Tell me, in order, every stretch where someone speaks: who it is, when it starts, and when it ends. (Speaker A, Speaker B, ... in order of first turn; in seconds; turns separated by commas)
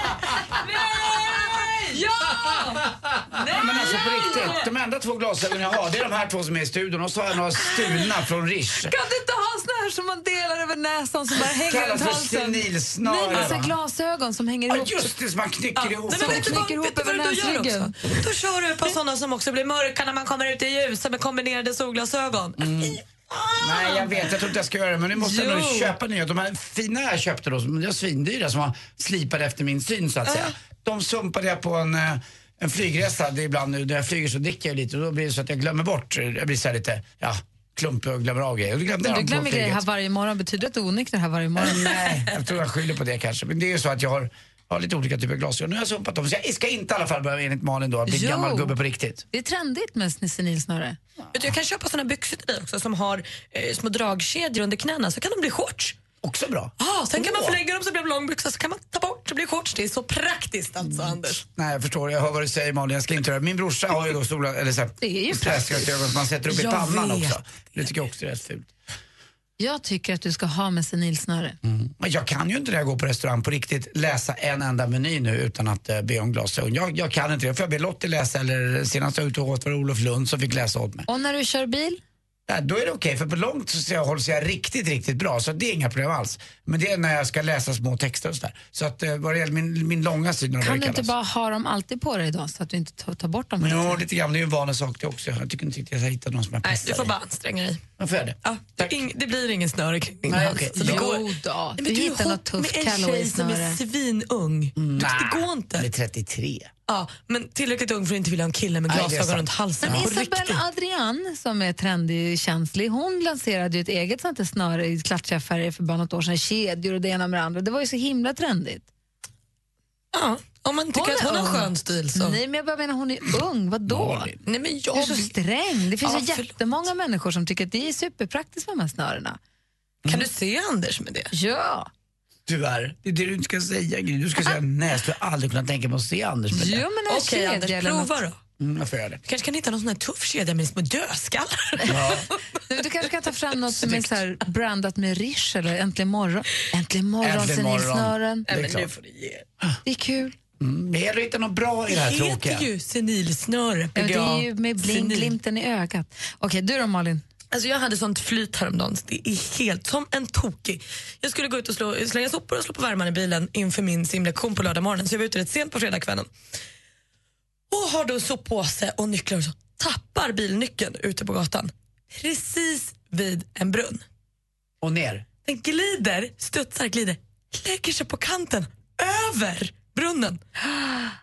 Speaker A: 0.5-4.6, Speaker B: 1.3-1.8, Speaker C: 3.4-8.9, Speaker B: 3.7-4.5, Speaker A: 8.8-15.1, Speaker C: 11.7-13.8, Speaker C: 14.7-16.6, Speaker B: 15.8-24.4, Speaker A: 16.1-17.9, Speaker C: 22.6-23.0, Speaker C: 23.6-39.8, Speaker B: 25.2-25.9, Speaker A: 39.1-42.1, Speaker C: 41.6-49.2, Speaker A: 48.1-48.8, Speaker A: 49.3-51.0, Speaker B: 51.3-56.0, Speaker C: 56.2-57.6, Speaker B: 56.8-61.4, Speaker C: 61.4-68.7, Speaker A: 65.0-65.8, Speaker B: 66.5-67.4, Speaker A: 69.6-71.6, Speaker C: 71.6-81.1, Speaker A: 81.1-82.0, Speaker C: 82.5-91.1, Speaker A: 90.6-94.0, Speaker C: 93.6-97.2, Speaker B: 96.6-97.8, Speaker C: 98.0-98.9, Speaker B: 98.4-105.9, Speaker C: 100.2-101.1, Speaker A: 100.3-103.8, Speaker C: 104.8-106.7, Speaker B: 106.9-110.6, Speaker C: 108.9-110.1, Speaker A: 109.8-118.9, Speaker B: 120.1-122.4, Speaker A: 120.9-124.3, Speaker C: 123.9-124.4, Speaker B: 124.4-125.3, Speaker A: 124.9-129.4, Speaker B: 126.0-126.5, Speaker B: 130.0-131.3, Speaker A: 131.3-131.9, Speaker C: 132.5-136.8, Speaker A: 136.5-138.2, Speaker B: 137.1-138.4, Speaker C: 138.6-139.2, Speaker B: 139.2-142.3, Speaker C: 141.8-142.3, Speaker A: 142.7-148.5, Speaker B: 143.7-144.1, Speaker C: 147.2-148.9, Speaker B: 148.5-149.4, Speaker A: 149.8-150.3, Speaker C: 150.6-152.7, Speaker B: 151.9-155.3, Speaker A: 153.9-157.2, Speaker B: 157.5-166.3, Speaker B: 167.7-174.0, Speaker C: 174.8-175.2, Speaker B: 175.4-180.4